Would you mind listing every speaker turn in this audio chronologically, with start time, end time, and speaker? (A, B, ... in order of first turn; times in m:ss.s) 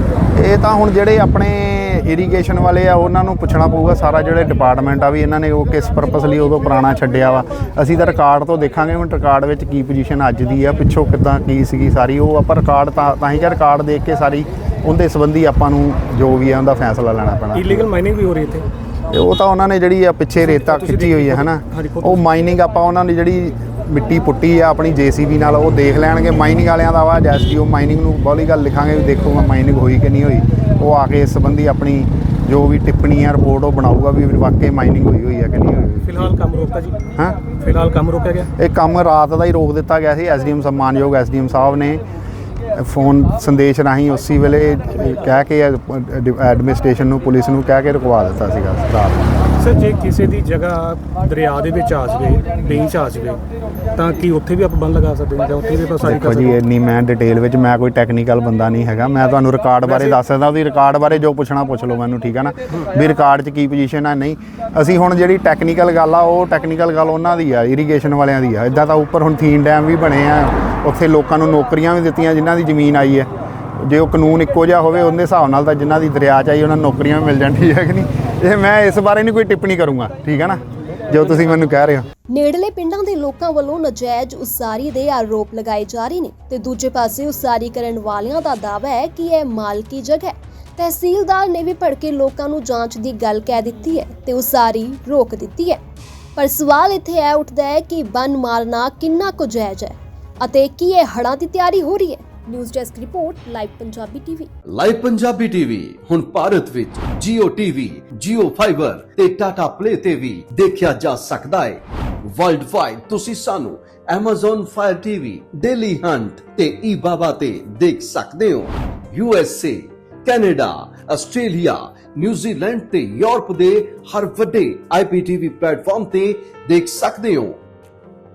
0:00.4-0:17.9 A
0:17.6-0:18.7 B
0:19.1-0:36.3 A
0:20.6-0:22.2 B
0:36.0-0:37.0 B
0:37.6-0:38.5 B
0:38.6-0:42.0 A
0:42.7-0:49.2 A
0:49.6-0:53.4 B
0:54.0-0:56.5 B
0:56.0-1:13.3 A
1:13.8-1:22.1 A
1:22.3-1:35.8 C
1:36.4-1:44.5 C
1:44.7-2:07.6 D